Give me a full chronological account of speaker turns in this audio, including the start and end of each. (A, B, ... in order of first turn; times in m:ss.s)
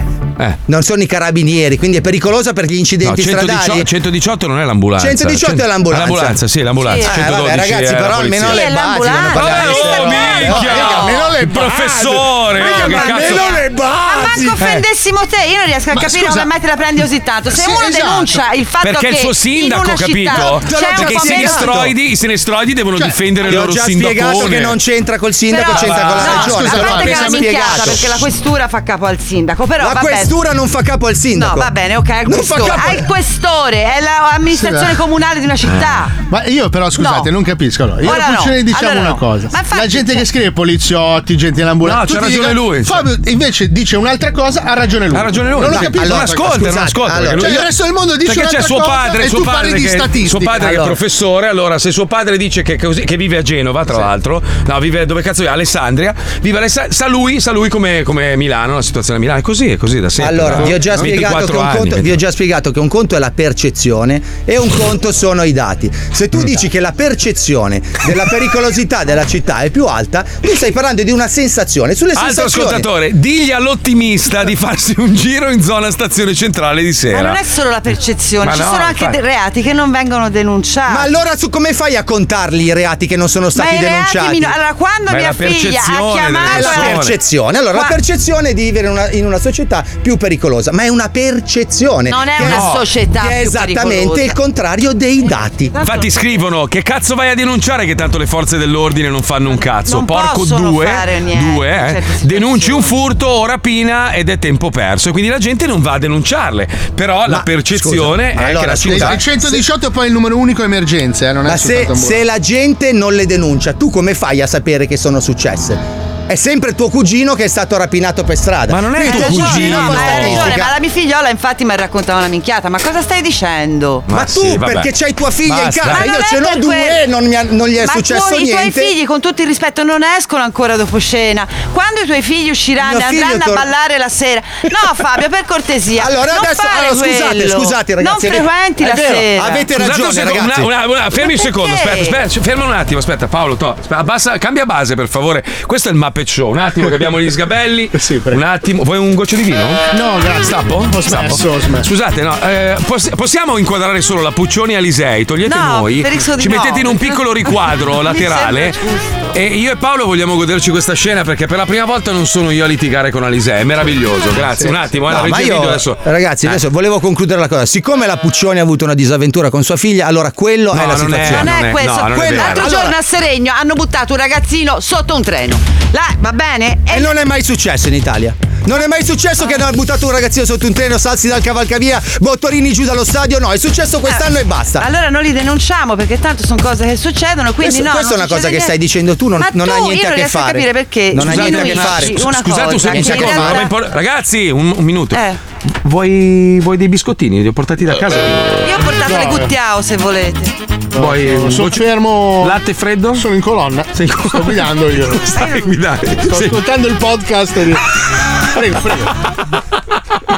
0:00.7-0:03.9 A
0:03.0-0:13.6 B
0:05.0-0:06.4 A
0:06.8-0:07.2 C
0:07.0-0:10.9 A
0:08.4-0:11.4 C
0:10.4-0:13.6 D
0:12.6-0:21.7 C
0:12.6-0:14.6 A
0:15.9-0:16.5 D
0:17.5-0:18.4 D
0:18.8-0:24.8 B
0:20.5-0:21.9 A
0:23.4-0:28.2 A
0:25.5-0:30.4 C
0:25.6-0:26.6 B
0:25.9-0:28.0 D
0:29.8-0:31.7 A
0:31.3-0:36.2 C
0:32.2-0:33.1 A
0:34.5-0:35.0 D
0:36.3-0:46.6 D
0:37.0-0:37.3 C
0:38.0-0:40.3 C
0:41.8-0:43.1 B
0:45.1-0:47.7 B
0:45.7-0:47.7 A
0:47.4-0:50.8 D
0:48.2-1:02.2 B
0:50.6-0:51.0 A
1:00.2-1:12.9 A
1:12.2-1:17.4 B
1:17.1-1:21.2 C
1:18.4-1:19.2 B
1:20.9-1:24.6 A
1:23.5-1:27.0 C
1:25.1-1:27.2 B
1:26.4-1:35.8 A
1:27.7-1:28.0 C
1:32.1-1:34.4 C
1:32.4-1:32.8 B
1:35.8-1:36.4 C
1:35.8-1:49.2 B
1:39.5-1:42.9 C
1:47.3-1:49.6 A
1:48.9-1:52.2 D
1:51.4-2:00.8 A
1:58.7-2:00.6 B
1:59.0-2:04.1 C
2:04.1-2:04.9 B
2:04.1-2:08.9 A
2:05.4-2:06.1 B
2:05.9-2:07.0 C
2:07.8-2:19.7 C
2:12.8-2:13.7 A
2:16.0-2:20.7 A
2:19.8-2:29.9 B
2:21.2-2:22.2 C
2:28.0-2:28.4 D
2:29.9-2:31.9 D
2:30.4-2:38.8 B
2:35.4-2:39.2 C
2:39.3-2:46.6 B
2:45.1-2:53.0 A
2:50.7-2:52.8 B
2:51.2-2:57.2 C
2:56.9-3:04.9 A
3:04.8-3:08.7 C
3:07.6-3:13.7 A
3:09.4-3:13.7 C
3:11.2-3:18.6 B
3:15.1-3:15.4 C
3:18.6-3:20.6 C
3:19.0-3:19.5 D
3:20.9-3:22.6 D
3:21.0-3:23.3 B
3:23.1-3:25.5 D
3:24.0-3:26.6 B
3:26.3-3:27.9 D
3:28.4-3:29.2 D